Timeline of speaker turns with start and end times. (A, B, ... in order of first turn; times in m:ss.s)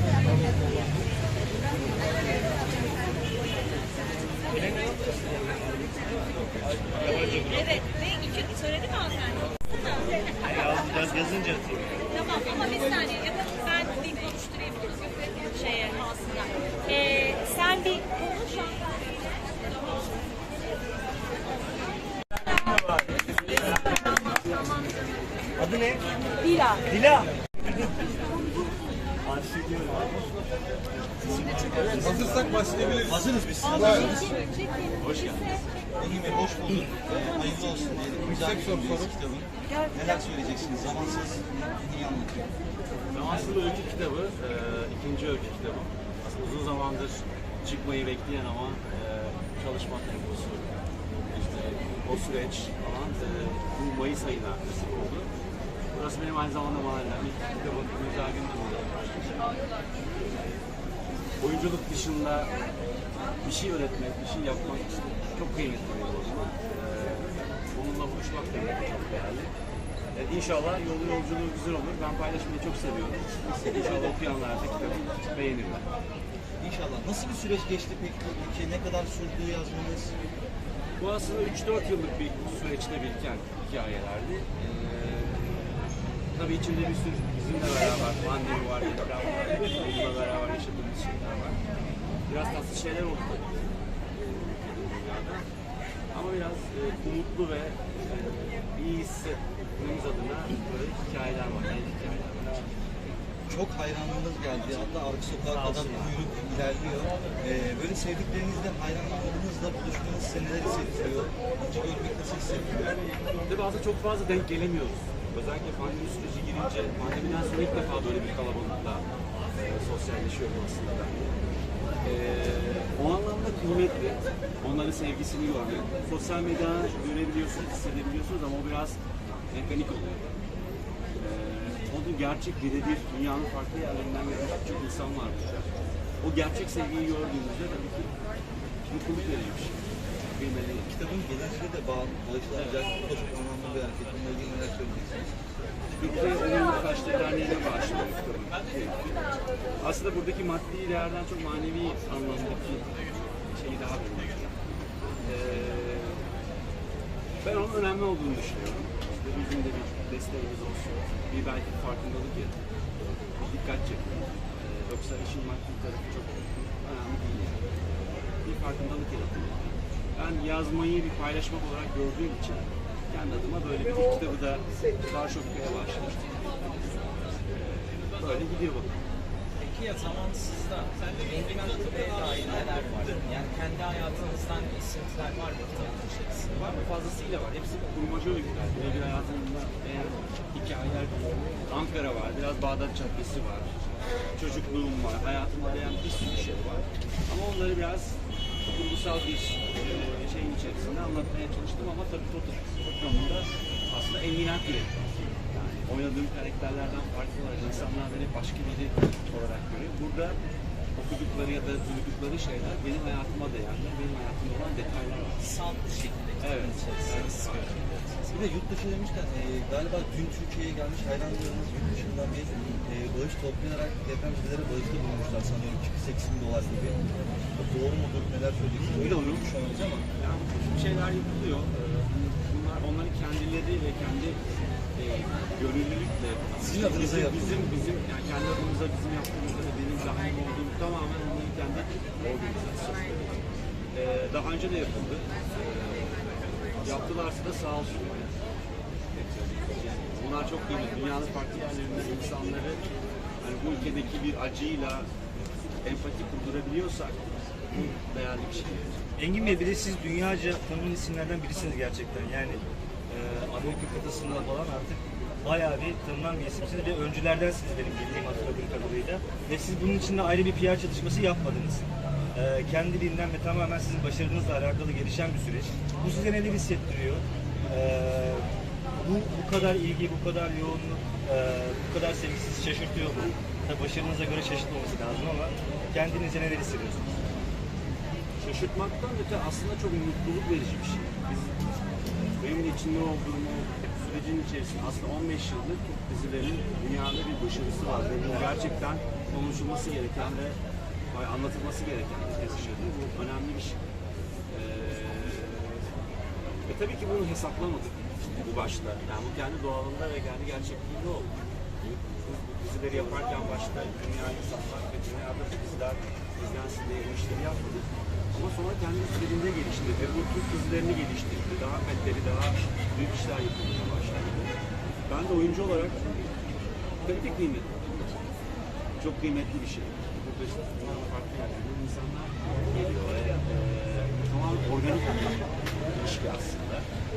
0:05.0-0:06.0 A
0:06.7-0:07.0 A
0:07.0-0:07.7 B
0:07.8-0:09.1 C
0:10.6-0:11.9 B
0:12.2-0:14.9 C
0:15.5-0:18.6 C
0:25.6-0:26.0 B
0:26.4-0:26.8 C
0:29.2-0:30.2 B
0:31.4-0:32.4 A
0:31.4-0:33.1 D
0:32.9-0:34.3 A
0:34.9-0:35.6 D
0:36.0-0:42.5 A
0:43.1-0:55.3 D
0:55.9-0:59.5 D
1:01.4-1:02.6 D
1:03.4-1:09.5 D
1:10.1-1:15.9 D
1:16.6-1:20.2 A
1:21.0-1:31.6 D
1:32.3-1:35.5 D
1:36.1-1:42.8 D
1:43.5-1:53.0 A
1:53.4-2:01.4 D
2:02.0-2:09.0 D
2:09.5-2:10.3 D
2:11.2-2:15.7 D
2:16.2-2:18.2 D
2:18.9-2:20.9 D
2:20.9-2:25.3 A
2:22.5-2:22.8 D
2:25.9-2:32.9 D
2:33.5-2:34.6 D
2:35.2-2:36.3 D
2:37.4-2:42.6 D
2:43.2-2:47.7 D
2:48.4-2:59.0 D
2:59.6-3:06.6 E
3:06.5-3:13.7 D
3:14.4-3:30.4 D
3:31.0-3:35.5 D
3:35.4-3:38.4 E
3:36.4-3:37.8 D
3:38.3-3:47.0 A
3:47.5-3:50.1 A
3:48.9-3:49.5 D
3:50.1-3:54.4 D
3:55.0-4:03.4 D
3:56.6-3:57.7 A
4:03.9-4:08.3 D
4:09.1-4:12.9 D
4:13.4-4:15.1 D
4:15.8-4:19.0 D
4:19.2-4:47.1 B
4:32.5-4:33.3 A
4:48.4-4:51.6 D
4:52.4-5:00.6 D
5:01.1-5:03.8 D
5:04.5-5:05.9 D
5:06.6-5:24.6 D
5:25.1-5:26.3 D
5:27.0-5:28.2 D
5:29.0-5:36.9 D